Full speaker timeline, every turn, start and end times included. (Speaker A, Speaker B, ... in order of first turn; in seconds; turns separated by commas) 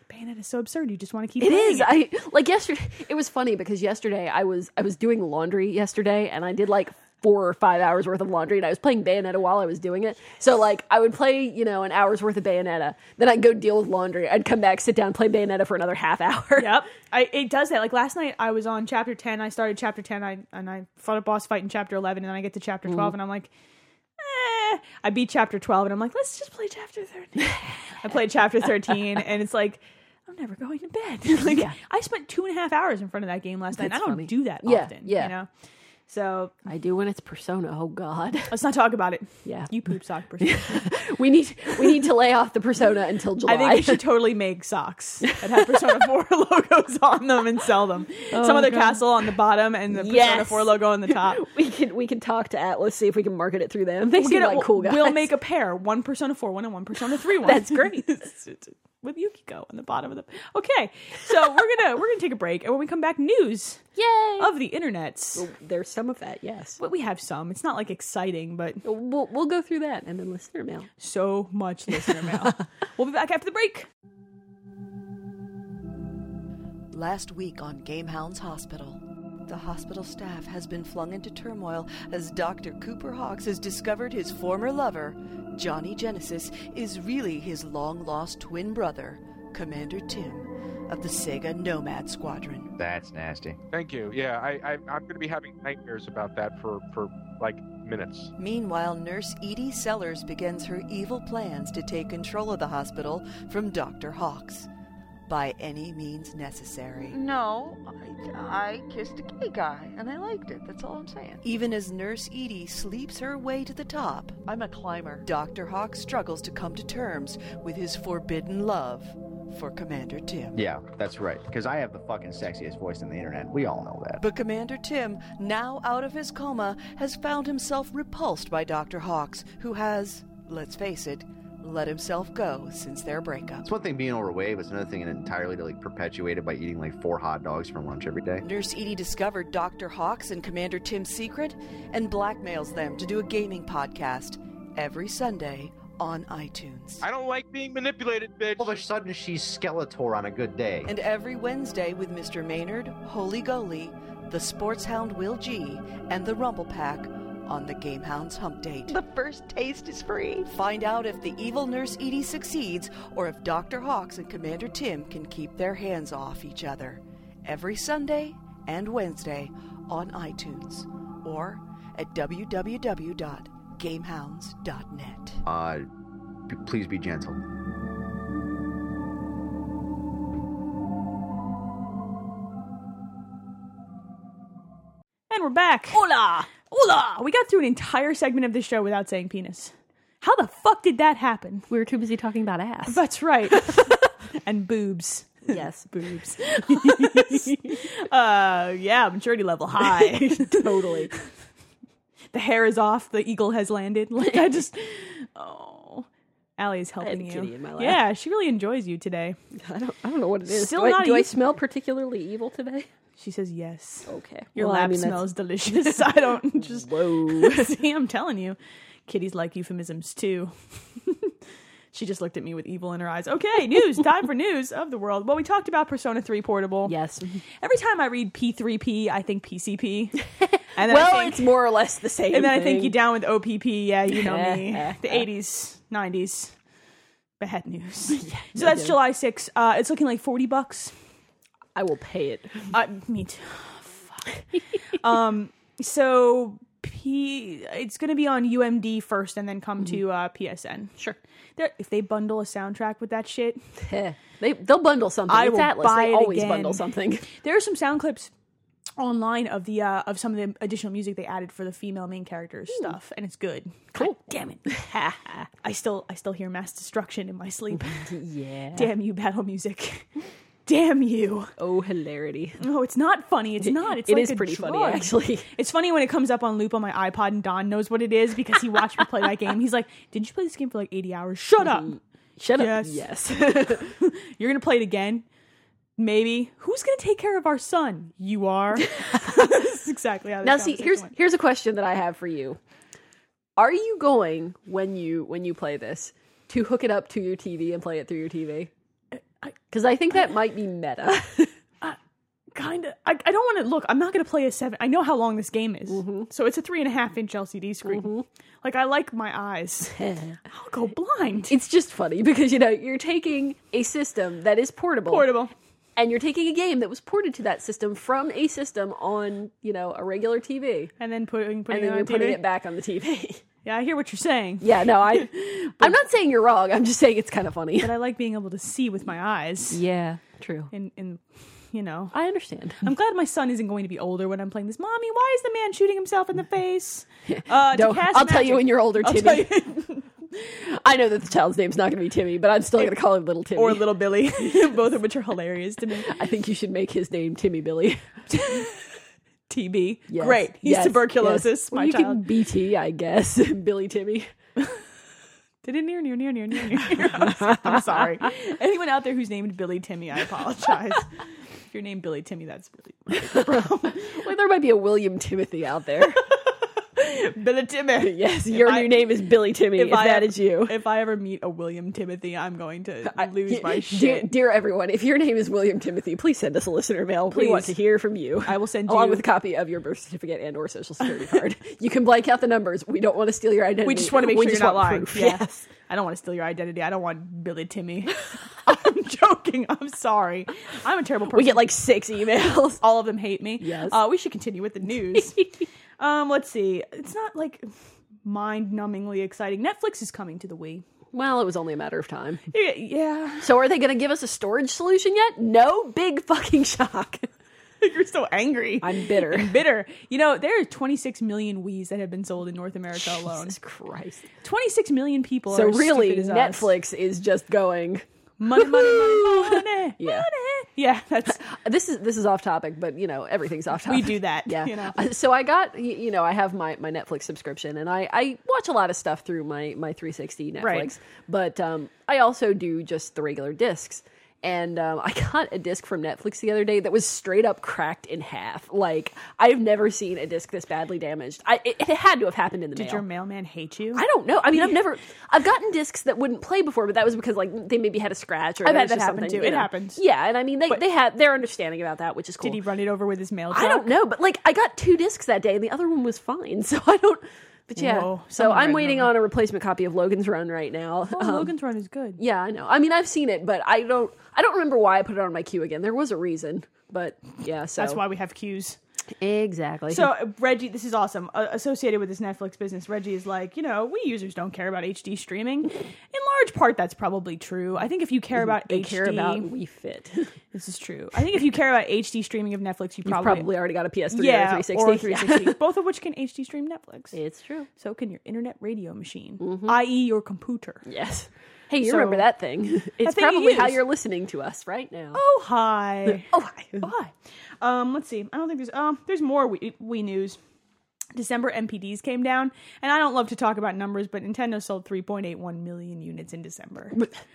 Speaker A: 0.1-1.9, Speaker B: 1.4-16.8, Speaker A: 16.6-23.5, Speaker B: 22.9-23.1, Speaker A: 24.2-35.5, Speaker B: 31.4-31.8, Speaker B: 33.8-35.4, Speaker A: 36.1-36.6, Speaker B: 36.7-38.5, Speaker A: 38.5-40.9, Speaker B: 39.5-39.7, Speaker B: 40.4-44.0, Speaker A: 43.5-51.5, Speaker B: 45.2-46.0, Speaker B: 48.3-49.3, Speaker B: 49.9-55.3, Speaker A: 54.2-63.9, Speaker B: 57.4-58.1, Speaker B: 64.0-64.5, Speaker A: 64.4-65.5, Speaker B: 65.3-66.8, Speaker A: 66.8-68.8, Speaker B: 68.8-70.9, Speaker A: 71.0-73.9, Speaker C: 76.9-92.7, Speaker D: 92.8-93.6, Speaker E: 93.7-98.3, Speaker C: 98.4-104.7, Speaker C: 105.3-107.2, Speaker F: 107.1-111.4, Speaker C: 111.4-114.5, Speaker F: 114.4-115.3, Speaker C: 115.2-120.6, Speaker D: 120.5-124.2, Speaker C: 124.2-133.7, Speaker D: 133.7-138.5, Speaker C: 138.4-147.0, Speaker E: 147.0-148.9, Speaker D: 148.6-150.9, Speaker C: 150.8-159.0, Speaker F: 158.9-160.5, Speaker C: 160.4-175.4, Speaker D: 175.4-175.9, Speaker D: 176.5-177.4, Speaker A: 185.3-191.7, Speaker B: 185.9-186.5, Speaker B: 191.7-193.9, Speaker A: 192.9-200.7, Speaker B: 195.5-197.8, Speaker B: 199.8-201.2, Speaker A: 202.3-209.4, Speaker B: 207.0-208.0, Speaker B: 209.5-212.9, Speaker A: 210.5-211.3, Speaker A: 213.2-221.3, Speaker B: 214.1-216.1, Speaker B: 216.6-217.7, Speaker A: 221.9-226.9, Speaker B: 226.9-227.4, Speaker A: 227.6-230.2, Speaker A: 230.8-231.5, Speaker B: 230.8-233.0, Speaker A: 232.3-236.6, Speaker B: 234.1-235.2, Speaker A: 237.4-240.9, Speaker B: 238.1-239.0, Speaker B: 241.8-242.7, Speaker A: 242.7-244.4, Speaker A: 244.9-251.0, Speaker A: 251.6-253.6, Speaker B: 253.8-257.3, Speaker A: 255.3-258.3, Speaker A: 259.0-268.1, Speaker B: 264.0-265.5, Speaker B: 267.8-268.9, Speaker A: 268.7-270.1, Speaker A: 270.7-271.5, Speaker B: 271.6-272.6, Speaker A: 272.6-281.9, Speaker B: 273.6-275.5, Speaker B: 281.6-283.9, Speaker A: 282.6-285.2, Speaker A: 286.0-291.1, Speaker B: 289.0-289.5, Speaker B: 290.4-292.6, Speaker B: 293.6-298.7, Speaker B: 299.7-301.5, Speaker A: 302.5-311.5, Speaker B: 305.9-306.3, Speaker B: 307.9-308.3, Speaker B: 309.9-310.4, Speaker B: 311.5-315.3, Speaker A: 315.1-315.5, Speaker B: 316.0-320.9, Speaker A: 321.0-322.4, Speaker B: 321.7-323.4, Speaker A: 323.6-325.3, Speaker B: 324.6-327.9, Speaker A: 327.8-329.8, Speaker B: 329.7-330.7, Speaker A: 330.7-332.1, Speaker B: 332.1-332.8, Speaker A: 332.8-340.1, Speaker B: 337.3-339.6, Speaker B: 340.6-343.9, Speaker A: 343.5-346.1, Speaker B: 346.1-348.1, Speaker A: 348.3-348.8, Speaker A: 349.5-352.2, Speaker B: 350.1-354.3, Speaker A: 355.6-364.2, Speaker B: 363.2-366.2, Speaker A: 366.2-369.1, Speaker B: 368.0-370.8, Speaker A: 369.8-374.3, Speaker B: 373.1-385.6, Speaker A: 377.3-377.8, Speaker A: 378.4-379.3, Speaker A: 383.8-391.7, Speaker B: 391.3-392.8, Speaker A: 392.8-395.4, Speaker B: 393.6-394.0, Speaker B: 395.1-395.5, Speaker A: 396.0-397.7, Speaker A: 398.2-400.8, Speaker B: 401.1-402.4, Speaker A: 402.5-403.5, Speaker B: 403.4-407.3, Speaker A: 407.8-413.6, Speaker B: 408.8-409.6, Speaker B: 412.9-414.3, Speaker A: 414.4-416.7, Speaker B: 415.5-420.3, Speaker A: 418.4-421.4, Speaker B: 421.3-443.0, Speaker A: 423.9-425.0, Speaker A: 430.6-430.9, Speaker A: 442.8-444.8, Speaker B: 443.9-452.6, Speaker A: 448.6-450.0, Speaker A: 452.4-453.9, Speaker B: 453.5-461.5, Speaker A: 457.8-459.1, Speaker A: 461.1-462.2, Speaker B: 462.2-468.0, Speaker A: 467.8-468.8, Speaker B: 469.2-470.1, Speaker A: 469.9-479.5, Speaker B: 478.4-480.4, Speaker A: 480.5-483.5, Speaker B: 483.1-485.6, Speaker A: 484.1-487.2, Speaker B: 487.1-487.7, Speaker A: 487.8-490.8, Speaker B: 489.4-489.8, Speaker B: 490.9-495.2, Speaker A: 491.8-492.3, Speaker A: 493.0-493.8, Speaker A: 495.1-500.4, Speaker B: 496.1-496.9, Speaker A: 501.1-507.0